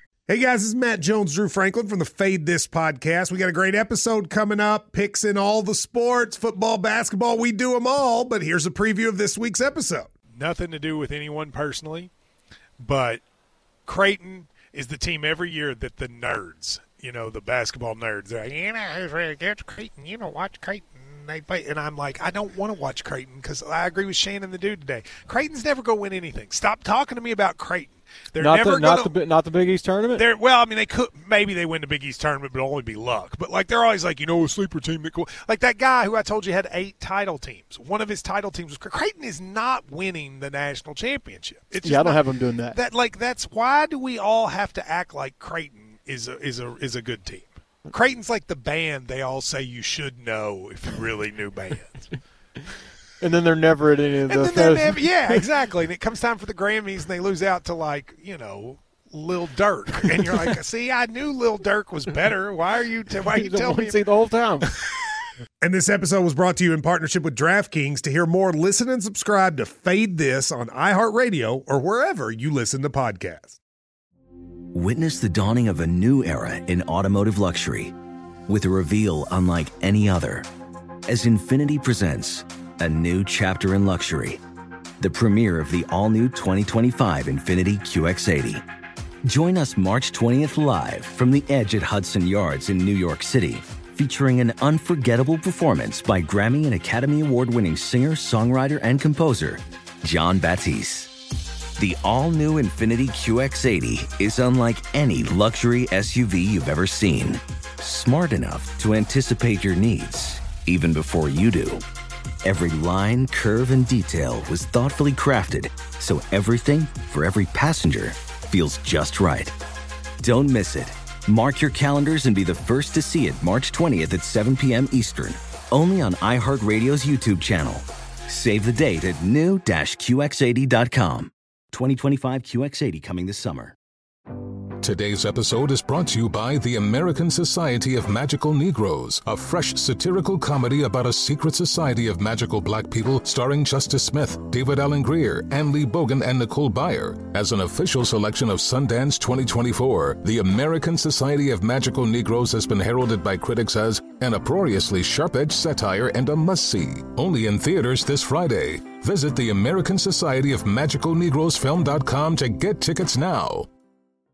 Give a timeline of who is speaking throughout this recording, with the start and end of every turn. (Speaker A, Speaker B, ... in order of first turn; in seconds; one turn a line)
Speaker A: 0.3-10.1
Speaker B: 10.3-12.1
Speaker B: 12.8-13.2
Speaker B: 13.8-29.2
Speaker C: 28.4-30.2
Speaker B: 30.1-52.1
Speaker C: 41.8-42.8
Speaker C: 53.2-55.5
Speaker B: 54.3-64.1
Speaker C: 63.3-64.7
Speaker A: 65.6-73.6
Speaker D: 74.7-78.0
Speaker D: 78.5-80.5
Speaker D: 81.1-84.4
Speaker D: 85.0-88.6
Speaker D: 89.2-101.1
Speaker D: 101.8-111.8
Speaker D: 112.4-119.5
Speaker D: 120.2-133.8
Speaker E: 134.8-163.7